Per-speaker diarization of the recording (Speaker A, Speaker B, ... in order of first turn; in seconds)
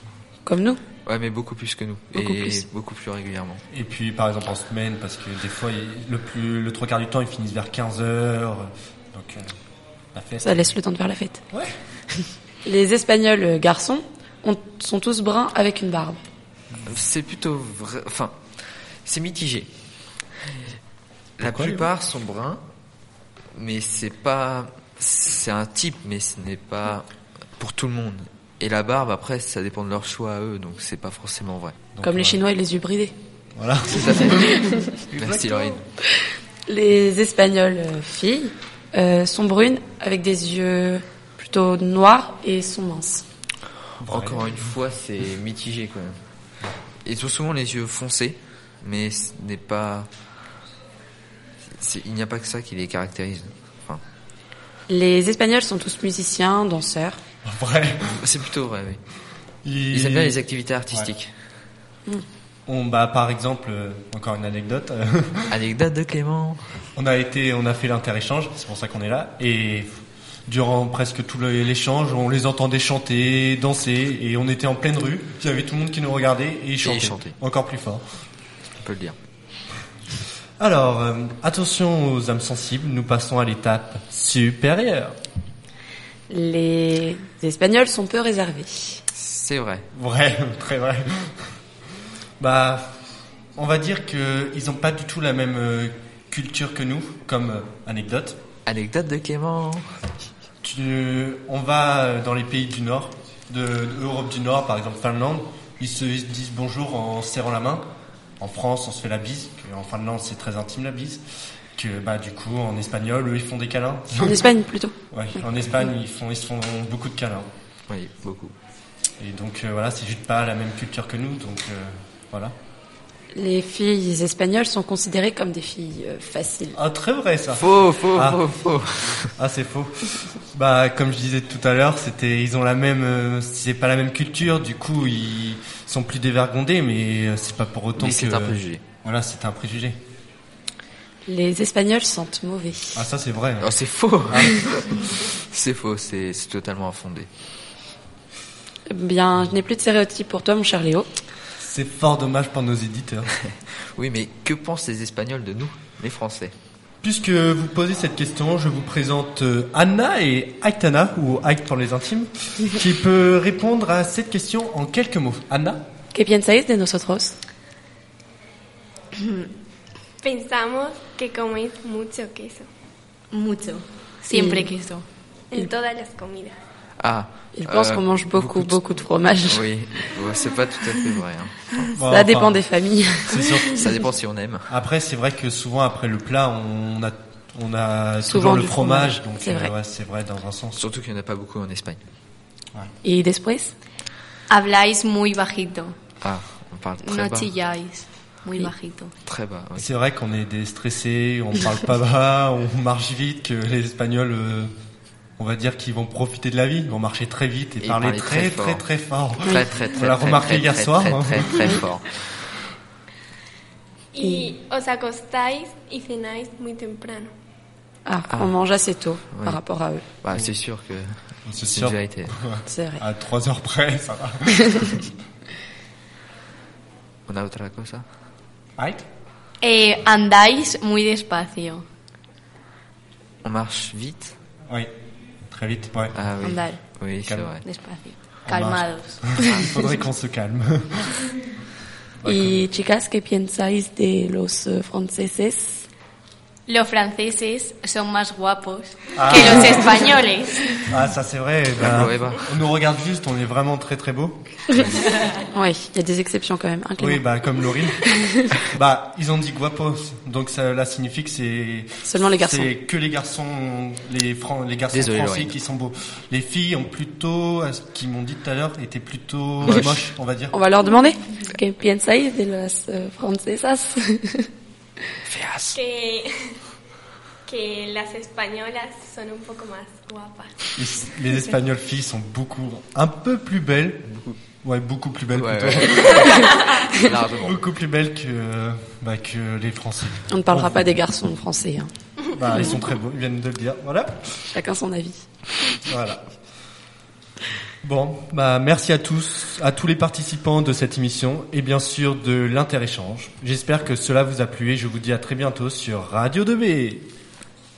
Speaker A: 0.5-0.8, 2.1-2.6, 10.4-11.4, 12.6-16.2, 32.0-33.1, 36.7-43.2, 54.9-57.2, 86.3-89.0, 114.2-114.9, 123.3-126.8, 141.2-143.0, 148.9-151.1, 166.1-167.3, 174.3-174.7, 177.5-179.7, 182.0-183.4, 188.2-189.7, 193.0-193.7, 214.2-214.5, 218.1-220.0, 222.7-223.0, 242.2-245.8, 255.3-257.2, 258.1-258.4, 262.0-262.7, 270.5-274.5, 290.3-291.9, 294.5-295.2
Speaker B: 1.1-3.6, 16.9-18.4, 19.0-19.7, 21.4-22.6, 23.5-31.8, 33.9-35.8, 44.0-46.2, 47.0-50.1, 51.7-54.0, 58.1-59.0, 59.9-61.3, 65.5-66.8, 76.8-77.3, 78.8-79.2, 89.1-89.9, 98.7-99.8, 117.9-118.5, 127.5-129.3, 138.0-138.8, 143.6-147.3, 153.7-156.5, 177.0-178.8, 179.4-181.9, 183.7-184.7, 190.8-192.0, 196.2-197.5, 199.2-199.9, 207.8-208.8, 209.4-212.2, 219.3-219.6, 220.2-222.3, 227.3-228.0, 233.4-234.3, 236.1-237.6, 251.8-252.4, 264.9-265.5, 275.2-275.8, 284.1-284.4, 285.3-287.6
Speaker C: 3.7-9.5, 10.1-10.6, 21.4-21.9, 31.9-32.4, 33.5-34.6, 35.1-35.8, 44.0-44.5, 57.5-58.2, 59.6-60.4, 62.7-65.5, 67.0-69.9, 70.5-78.0, 80.6-85.1, 89.9-91.4, 92.4-93.0, 93.5-98.4, 100.6-107.8, 108.4-111.2, 111.8-114.4, 115.1-117.5, 119.2-122.5, 126.7-128.4, 129.4-140.0, 142.9-143.7, 144.3-144.6, 151.6-153.3, 157.0-165.8, 181.9-182.6, 183.2-183.8, 184.7-190.8, 199.8-204.7, 205.4-211.8, 221.4-225.0, 228.8-229.0, 235.5-236.1, 238.4-241.3, 242.2-242.6, 249.2-250.1, 250.9-254.4, 257.0-270.5, 280.8-284.0, 284.6-286.5, 287.3-290.9, 292.3-294.2, 295.9-296.2, 297.8-307.0
Speaker D: 170.2-172.6, 175.5-176.5, 214.1-217.3, 275.7-276.3, 277.5-280.6
Speaker E: 173.3-175.0, 194.5-195.9, 197.0-199.1, 229.6-231.8, 236.4-236.8, 237.6-239.7, 246.7-250.9